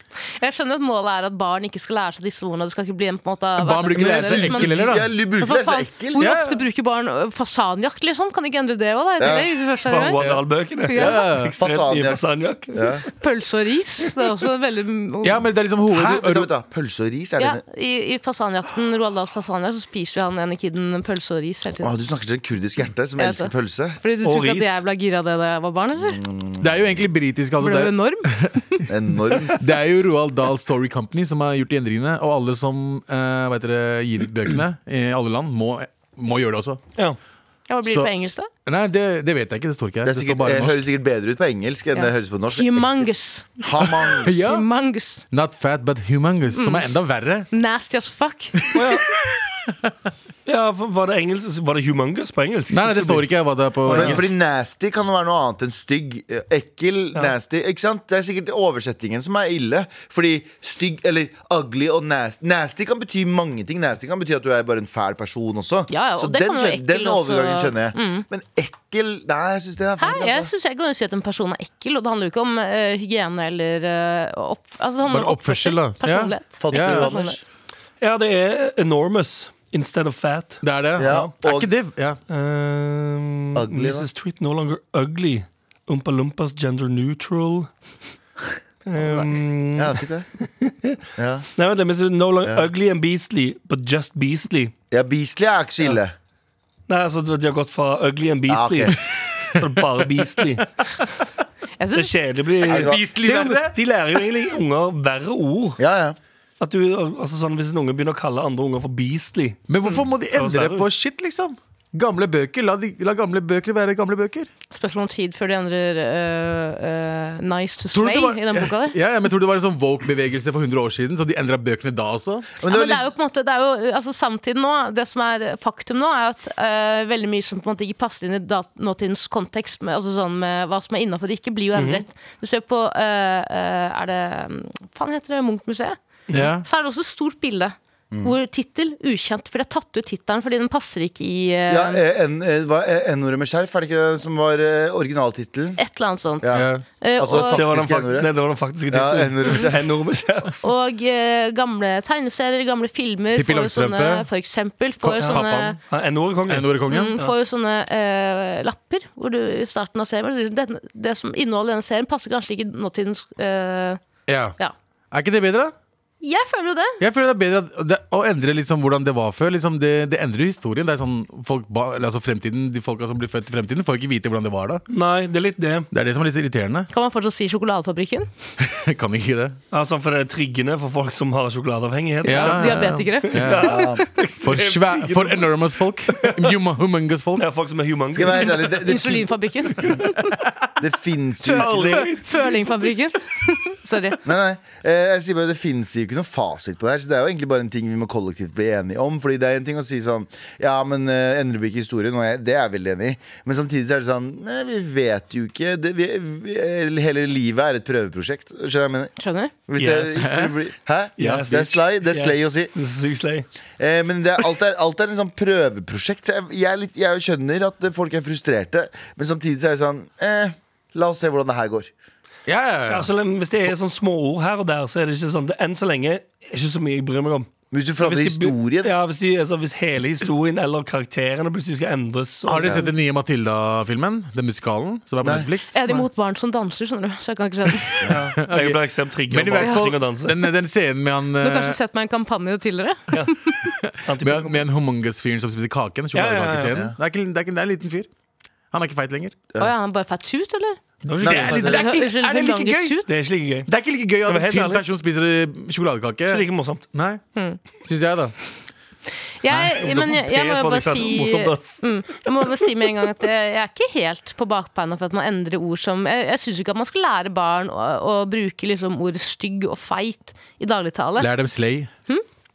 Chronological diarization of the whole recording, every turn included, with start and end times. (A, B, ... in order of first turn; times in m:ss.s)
0:00.4-0:10.2 A
0:03.6-0:05.1 B
0:03.9-0:06.2 C
0:06.2-0:06.6 B
0:09.2-0:09.5 C
0:09.8-0:12.8 D
0:10.2-0:11.6 B
0:10.9-0:11.3 A
0:11.4-0:13.0 C
0:13.1-0:15.4 A
0:15.2-0:16.5 B
0:15.9-0:17.6 C
0:17.4-0:21.9 A
0:21.8-0:24.0 C
0:23.2-0:26.2 A
0:24.2-0:24.8 D
0:26.0-0:26.8 C
0:26.6-0:28.8 B
0:27.6-0:28.8 A
0:28.9-0:29.7 C
0:29.5-0:36.8 B
0:37.7-0:38.5 A
0:37.8-0:38.1 B
0:38.6-0:40.8 B
0:40.0-0:44.4 C
0:41.9-0:45.2 A
0:43.8-0:44.6 B
0:45.3-0:47.5 B
0:46.5-0:46.9 A
0:47.5-0:48.7 A
0:48.6-0:49.0 B
0:48.7-0:49.0 D
0:50.4-0:54.2 D
0:52.7-0:54.3 B
0:53.9-1:10.5 C
1:05.9-1:08.2 A
1:10.0-1:17.4 A
1:15.0-1:17.1 B
1:16.6-1:17.4 C
1:18.0-1:21.3 D
1:20.6-1:22.2 B
1:21.0-1:21.7 C
1:22.3-1:27.7 D
1:23.5-1:24.1 C
1:28.8-1:31.0 D
1:29.1-1:30.2 C
1:31.2-1:31.5 C
1:31.6-1:34.7 D
1:34.9-1:36.1 C
1:36.9-1:39.0 D
1:38.5-1:39.0 C
1:39.6-1:40.6 D
1:41.8-1:42.1 A
1:41.9-1:45.8 D
1:42.7-1:43.0 C
1:42.7-1:43.8 B
1:45.8-1:46.2 C
1:46.6-1:49.6 D
1:49.7-1:54.5 B
1:50.3-1:50.8 D
1:54.7-1:58.9 A
1:57.9-2:02.5 B
2:02.6-2:03.1 C
2:02.7-2:16.0 A
2:11.7-2:12.0 D
2:16.3-2:16.6 B
2:16.6-2:22.0 A
2:21.7-2:25.8 C
2:25.8-2:27.6 A
2:26.4-2:28.3 C
2:26.5-2:26.8 B
2:27.5-2:30.6 D
2:28.9-2:29.8 C
2:30.6-2:35.8 A
2:33.3-2:34.3 B
2:35.0-2:35.8 B
2:35.2-2:37.3 D
2:36.5-2:37.2 B
2:36.9-2:44.0 A
2:44.3-2:44.6 B
2:45.1-2:45.7 B
2:46.2-2:47.0 A
2:47.0-2:54.8 B
2:54.9-2:55.9 D
2:55.9-2:56.9 B
2:56.9-2:58.3 A
2:58.6-2:59.6 B
2:59.7-3:05.6 D
3:02.2-3:03.8 B
3:02.2-3:04.0 A
3:03.6-3:04.0 C
3:04.4-3:07.5 B
3:06.1-3:06.6 D
3:07.4-3:08.8 D
3:08.1-3:09.3 C
3:08.8-3:10.3 A
3:10.8-3:12.1 C
3:11.4-3:14.2 A
3:11.4-3:12.9 D
3:14.2-3:29.1 C
3:29.2-3:29.5 A
3:29.7-3:32.7 C
3:29.8-3:30.3 D
3:30.2-3:30.5 B
3:31.2-3:31.6 B
3:31.2-3:33.5 D
3:33.8-3:41.9 C
3:42.5-3:43.1 B
3:42.9-3:52.9 D
3:47.7-3:48.9 C
3:52.4-3:55.7 B
3:55.2-3:55.5 C
3:55.7-3:58.1 A
3:57.8-4:01.8 B
3:58.0-4:00.4 D
3:59.6-3:59.8 A
4:01.4-4:03.6 A
4:03.7-4:08.1 B
4:04.0-4:04.6 D
4:06.1-4:06.8 D
4:08.7-4:09.4 B
4:09.6-4:10.8 A
4:11.0-4:11.6 D
4:11.2-4:13.0 B
4:11.2-4:11.9 C
4:11.5-4:13.1 A
4:13.1-4:13.7 D
4:13.7-4:17.2 B
4:14.2-4:14.8 D
4:16.3-4:16.8 D
4:17.8-4:18.3 B
4:19.4-4:31.3 A
4:19.5-4:21.8 D
4:31.2-4:31.9 B